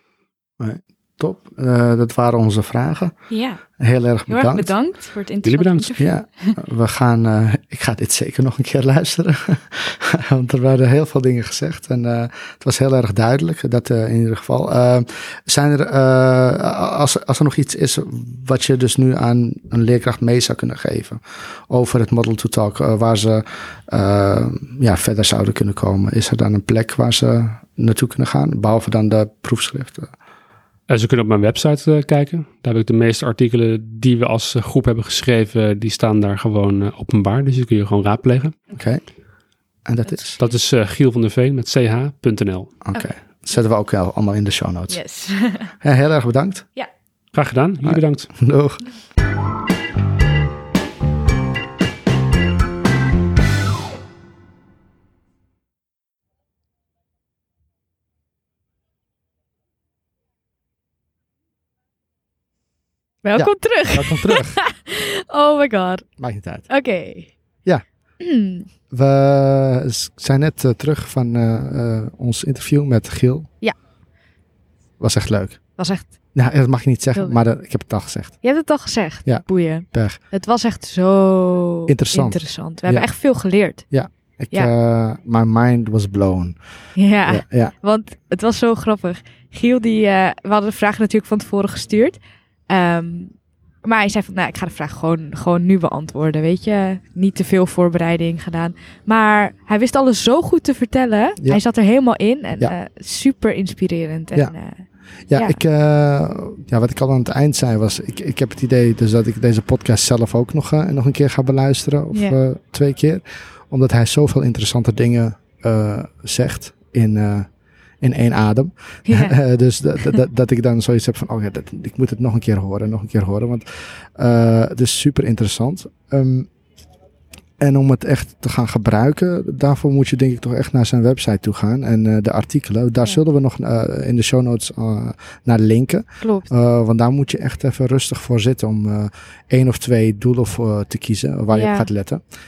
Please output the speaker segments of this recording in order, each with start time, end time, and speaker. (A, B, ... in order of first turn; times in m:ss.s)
0:00.6-0:04.7 A
0:03.3-0:06.6 B
0:05.4-0:05.9 C
0:06.0-0:30.1 A
0:30.9-0:38.6 C
0:38.8-0:39.1 A
0:39.8-0:40.4 A
0:40.1-0:40.4 B
0:40.4-0:42.7 C
0:42.8-0:45.1 A
0:44.9-0:45.7 B
0:45.8-0:46.7 A
0:47.3-0:48.3 C
0:47.8-0:48.8 A
1:03.2-1:06.1 B
1:03.4-1:04.6 A
1:06.2-1:06.8 A
1:06.7-1:07.3 B
1:08.2-1:08.7 B
1:08.9-1:13.5 A
1:15.0-1:18.6 A
1:15.8-1:16.1 B
1:17.2-1:17.4 B
1:18.4-1:23.9 B
1:19.2-1:20.2 A
1:21.9-1:26.6 A
1:27.0-1:45.6 B
1:27.2-1:27.7 A
1:45.2-2:06.5 A
1:59.1-1:59.4 B
2:07.6-2:22.2 A
2:16.2-2:16.5 B
2:21.5-2:21.9 B